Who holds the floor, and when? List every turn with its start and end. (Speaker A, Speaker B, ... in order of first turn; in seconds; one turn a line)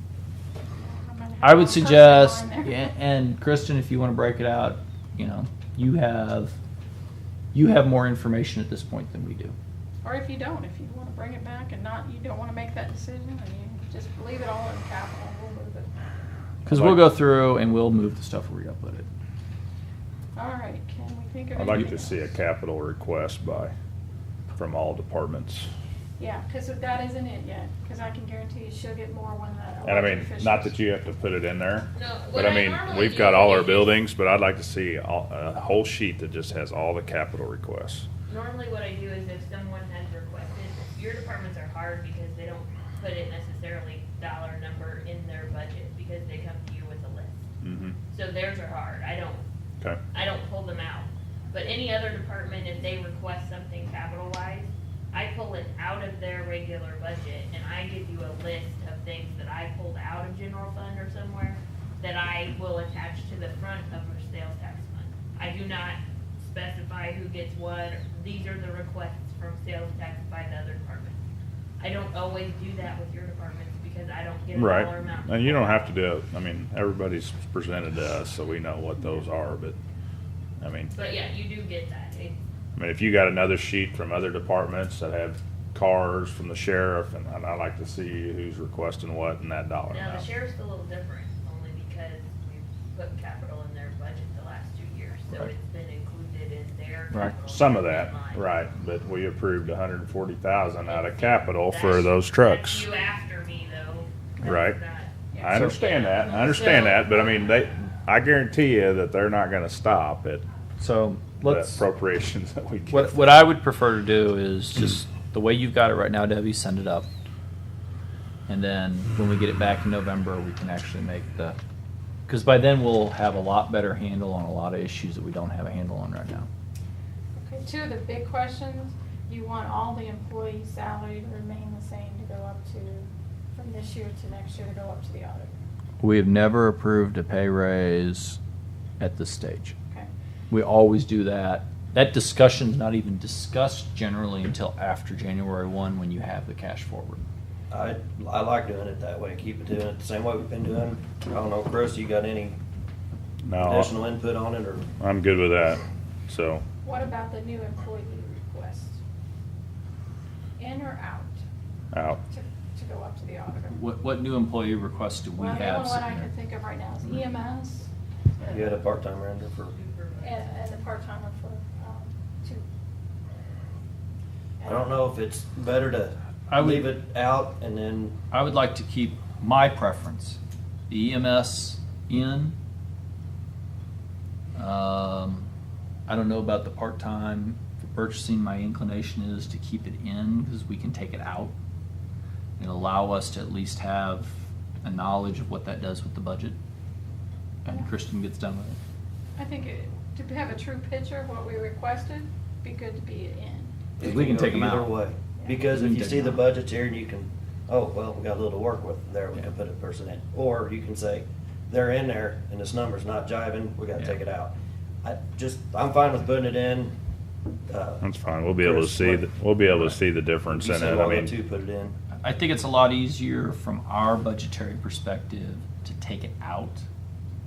Speaker A: 0.8-2.9
Speaker B: 1.4-6.6
Speaker B: 7.5-9.6
Speaker A: 10.0-15.9
Speaker B: 16.6-19.1
Speaker C: 16.7-17.1
Speaker A: 20.4-22.3
Speaker C: 21.6-23.7
Speaker C: 24.6-25.7
Speaker A: 26.2-30.8
Speaker C: 29.9-38.1
Speaker D: 32.0-34.0
Speaker D: 38.3-47.5
Speaker C: 47.6-48.0
Speaker D: 48.1-49.5
Speaker D: 50.1-71.2
Speaker D: 71.8-76.0
Speaker C: 74.5-79.8
Speaker C: 80.6-80.9
Speaker D: 80.9-82.4
Speaker C: 82.8-90.3
Speaker D: 89.9-98.5
Speaker C: 97.5-102.9
Speaker D: 100.8-107.3
Speaker C: 104.4-104.8
Speaker C: 105.4-110.5
Speaker B: 105.5-105.8
Speaker B: 110.8-111.8
Speaker C: 111.4-113.2
Speaker B: 112.9-117.1
Speaker B: 118.5-121.6
Speaker B: 122.3-126.5
Speaker A: 127.4-135.6
Speaker B: 136.0-138.4
Speaker B: 139.0-139.8
Speaker B: 140.5-147.2
Speaker E: 147.7-152.6
Speaker C: 153.5-153.9
Speaker E: 153.6-154.9
Speaker C: 155.0-156.6
Speaker A: 156.8-159.0
Speaker A: 160.6-161.4
Speaker C: 161.9-162.2
Speaker A: 162.3-163.8
Speaker B: 163.7-166.3
Speaker A: 165.4-167.9
Speaker E: 168.5-169.8
Speaker D: 169.7-170.6
Speaker A: 170.2-172.7
Speaker A: 174.6-175.0
Speaker E: 174.7-178.2
Speaker B: 176.5-176.9
Speaker B: 178.3-180.4
Speaker B: 180.9-182.6
Speaker B: 184.6-185.5
Speaker B: 186.1-191.6
Speaker B: 192.6-196.6
Speaker B: 197.7-198.8
Speaker A: 199.4-203.9
Speaker E: 204.0-217.0
Speaker B: 204.0-204.9
Speaker B: 205.7-206.5
Speaker E: 217.7-218.0
Speaker C: 218.0-221.3
Speaker E: 218.6-219.3
Speaker E: 220.5-221.9
Speaker B: 222.2-226.8